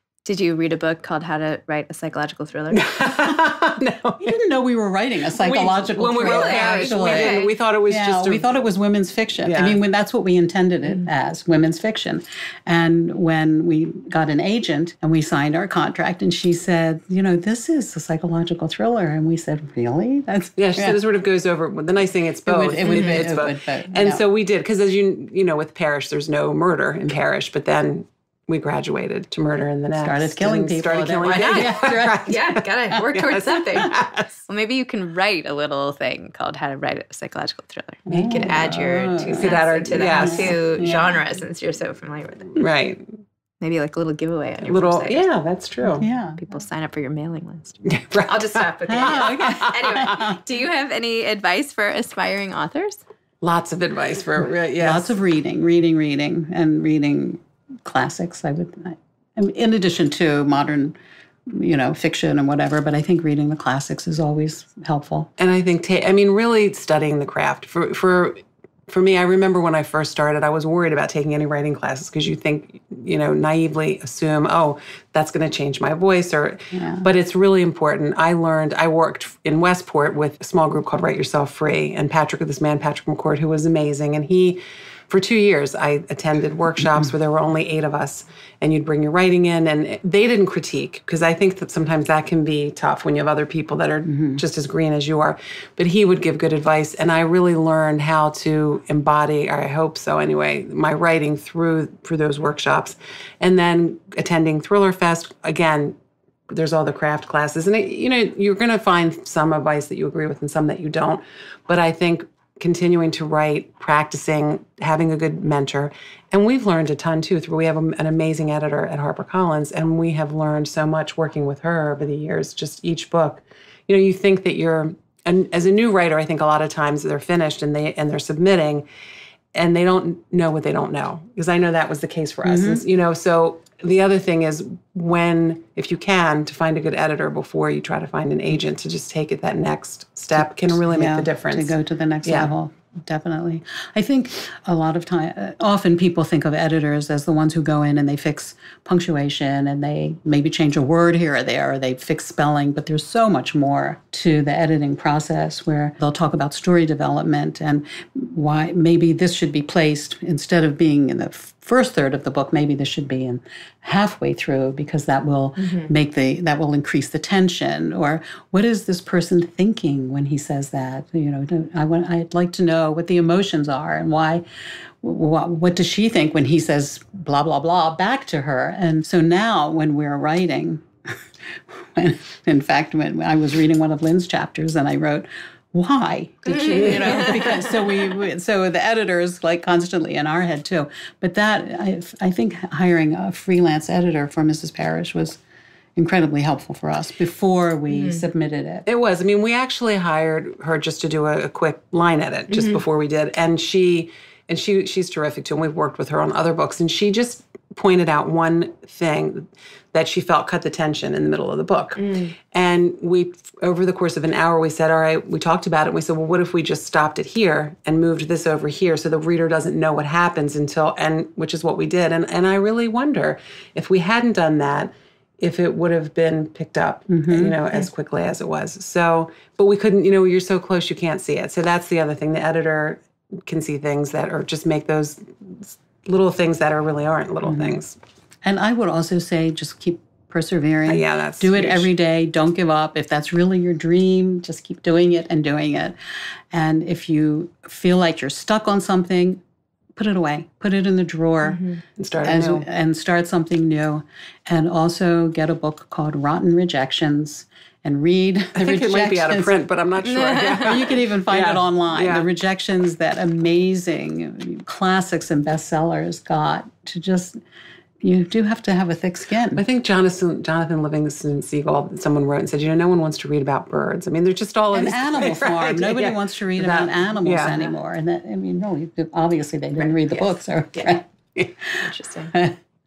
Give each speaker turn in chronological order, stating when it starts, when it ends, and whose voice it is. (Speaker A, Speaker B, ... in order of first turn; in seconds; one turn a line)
Speaker A: 0.2-2.9
Speaker B: 2.7-4.3
Speaker C: 4.2-21.0
Speaker B: 5.3-8.5
Speaker A: 6.2-7.5
Speaker B: 9.4-9.8
Speaker B: 20.6-34.3
Speaker C: 22.4-24.2
Speaker A: 22.8-23.3
Speaker C: 29.9-32.3
Speaker A: 31.3-34.0
Speaker A: 34.5-42.6
Speaker C: 38.1-41.2
Speaker B: 39.3-40.6
Speaker B: 42.6-43.1
Speaker A: 43.6-45.3
Speaker B: 44.6-46.1
Speaker C: 45.8-46.4
Speaker A: 46.4-53.0
Speaker B: 47.9-49.8
Speaker C: 48.9-50.4
Speaker B: 53.4-55.1
Speaker C: 54.8-61.0
Speaker C: 61.5-65.3
Speaker B: 65.4-106.0
Speaker C: 76.7-77.1
Speaker C: 94.1-94.4
Speaker B: 106.5-128.8
Speaker B: 129.5-142.5
Speaker C: 132.4-132.8
Speaker C: 140.7-174.4
Speaker A: 165.6-165.9
Speaker C: 175.0-180.9
Speaker C: 181.5-195.4
Speaker A: 186.5-187.7
Speaker C: 196.0-198.8
Speaker A: 197.9-198.2
Speaker B: 198.9-238.0
Speaker A: 202.5-202.8
Speaker A: 212.0-212.3
Speaker C: 227.1-227.6
Speaker C: 237.4-237.8
Speaker C: 238.4-246.0
Speaker B: 240.9-241.9
Speaker C: 246.5-249.4
Speaker C: 250.0-251.7
Speaker A: 251.5-251.8
Speaker B: 252.0-252.7
Speaker C: 252.2-259.5
Speaker B: 258.6-262.3
Speaker A: 260.0-260.8
Speaker C: 260.6-267.4
Speaker C: 268.0-269.6
Speaker B: 269.6-277.6
Speaker C: 274.7-281.1
Speaker A: 280.1-280.9
Speaker C: 281.6-282.6
Speaker A: 281.8-282.3